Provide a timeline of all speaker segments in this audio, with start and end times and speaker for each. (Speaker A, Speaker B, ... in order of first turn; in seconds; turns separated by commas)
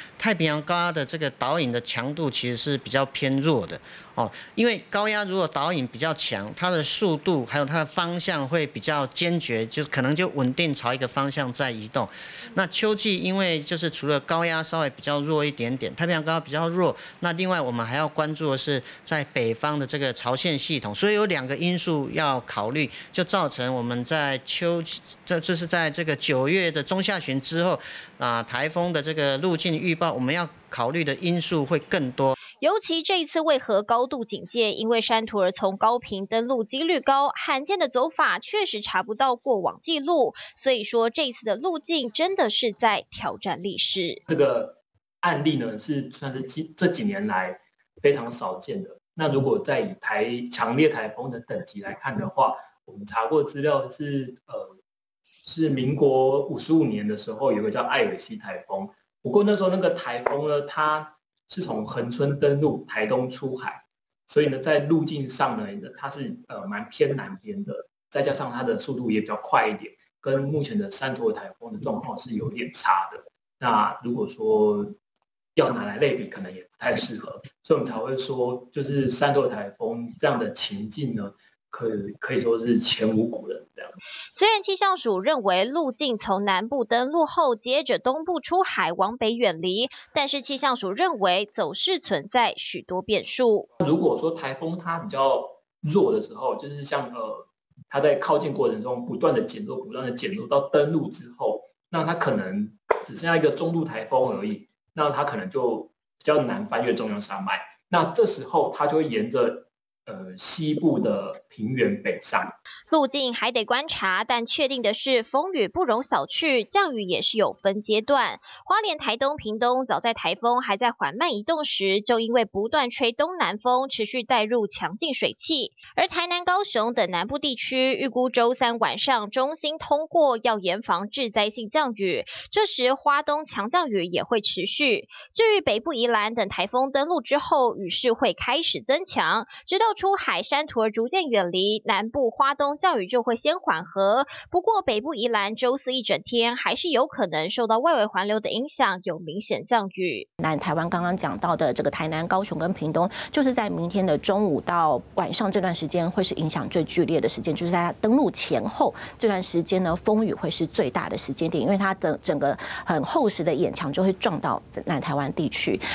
Speaker A: 0.2-32.4, Speaker B: 32.6-44.2, Speaker C: 44.3-54.8, Speaker C: 55.4-75.0, Speaker C: 75.5-84.0, Speaker B: 84.3-93.7, Speaker C: 93.8-112.6, Speaker B: 112.9-150.3, Speaker D: 150.4-165.8